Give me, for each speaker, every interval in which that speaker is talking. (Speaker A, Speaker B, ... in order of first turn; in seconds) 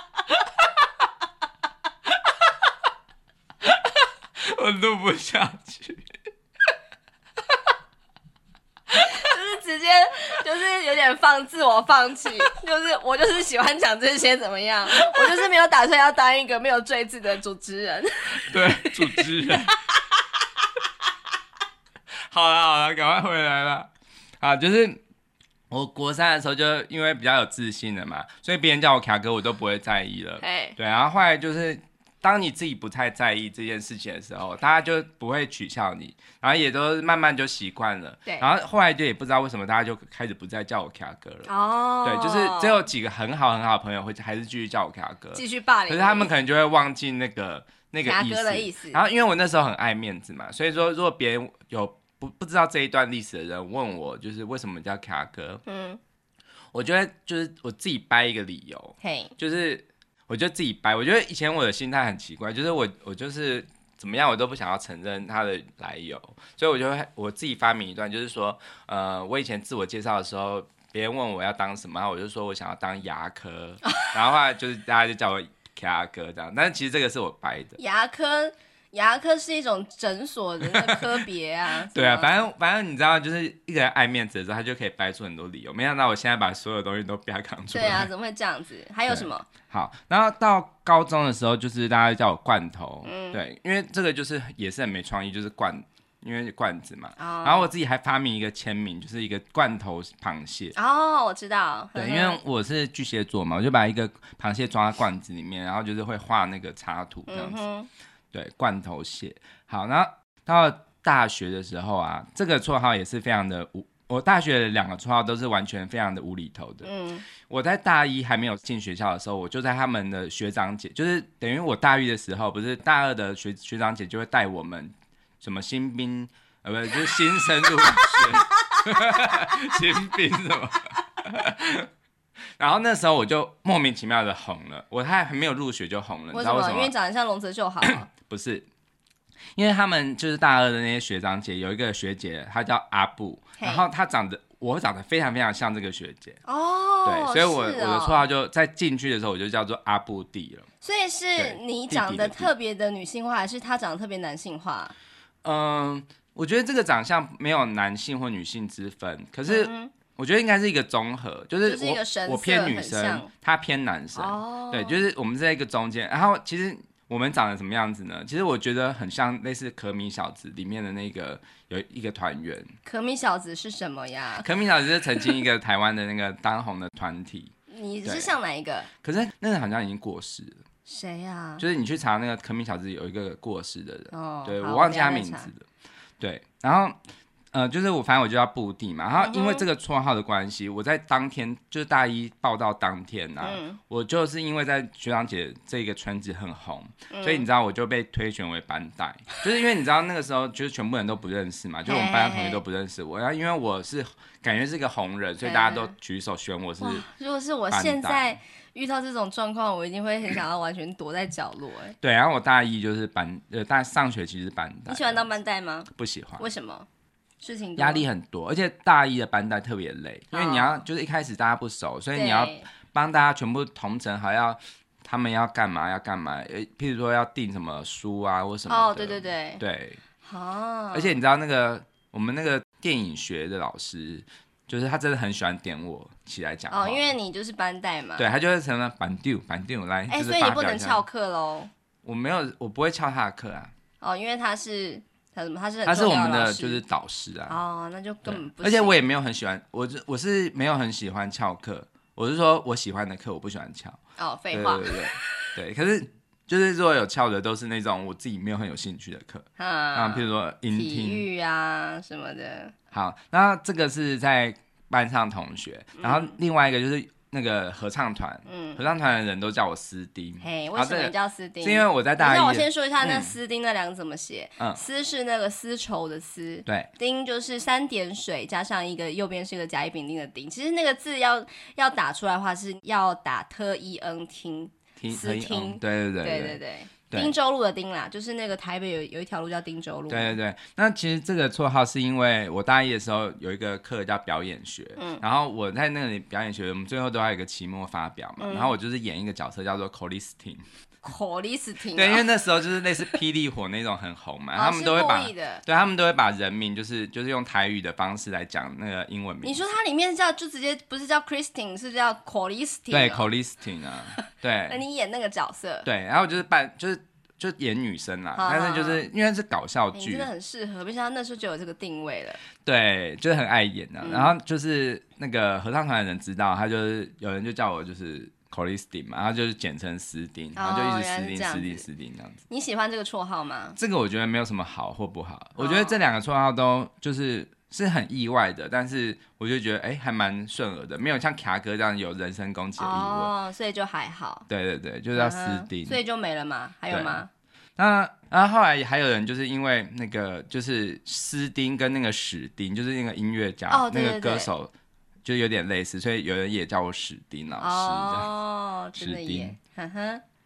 Speaker A: 4.4-6.0, 18.3-19.8, 22.3-23.9, 24.4-25.0, 25.7-41.5, 42.0-55.6, 56.7-77.8, 80.7-81.1, 81.9-88.1, 89.1-100.7, 101.9-107.6, 108.3-131.9, 132.6-136.9, 137.9-138.7, 139.6-146.4, 147.0-150.7, 151.3-152.5, 155.4-172.7, 174.4-177.5, 178.0-178.3, 179.0-180.6, 181.6-185.7, 186.2-187.0, 187.5-207.1, 207.7-208.2, 212.0-215.3, 215.9-216.5, 217.8-230.0, 230.9-237.1, 238.2-241.0, 242.0-243.7, 245.8-247.6, 248.2-254.0, 254.5-261.2, 262.9-273.3, 285.0-286.6, 290.1-300.6, 301.9-309.6, 312.9-314.8, 315.8-320.3, 322.6-332.4, 333.8-343.3, 344.5-346.0, 346.9-347.2, 347.8-354.7, 355.2-358.3, 359.0-359.6
Speaker B: 8.9-19.8, 30.4-30.8, 41.5-42.8, 45.3-46.3, 48.0-49.0, 55.6-56.0, 59.0-59.3, 77.8-82.5, 87.7-89.5, 93.0-93.4, 97.2-97.7, 100.7-102.4, 107.3-107.9, 116.8-117.2, 127.6-129.8, 136.3-138.1, 143.6-143.8, 146.4-148.2, 150.8-154.9, 159.5-159.9, 161.6-163.3, 164.1-165.0, 172.8-174.5, 177.7-178.9, 180.8-181.6, 184.1-185.5, 189.2-189.6, 193.4-193.8, 197.1-197.5, 201.8-202.6, 205.4-205.9, 206.8-212.0, 214.9-216.9, 217.4-218.1, 220.3-220.8, 222.1-222.7, 228.7-229.6, 230.2-231.2, 236.7-238.3, 240.1-241.7, 244.0-246.8, 247.5-249.0, 254.2-255.5, 259.6-262.7, 266.0-266.3, 268.4-268.8, 270.4-290.4, 295.0-295.2, 298.4-298.7, 301.0-302.3, 304.5-305.6, 309.4-313.3, 314.7-315.9, 318.4-319.1, 319.9-322.4, 324.0-324.3, 330.5-331.8, 332.5-333.8, 335.6-336.0, 342.8-344.5, 345.1-347.3, 353.7-354.5, 357.6-360.2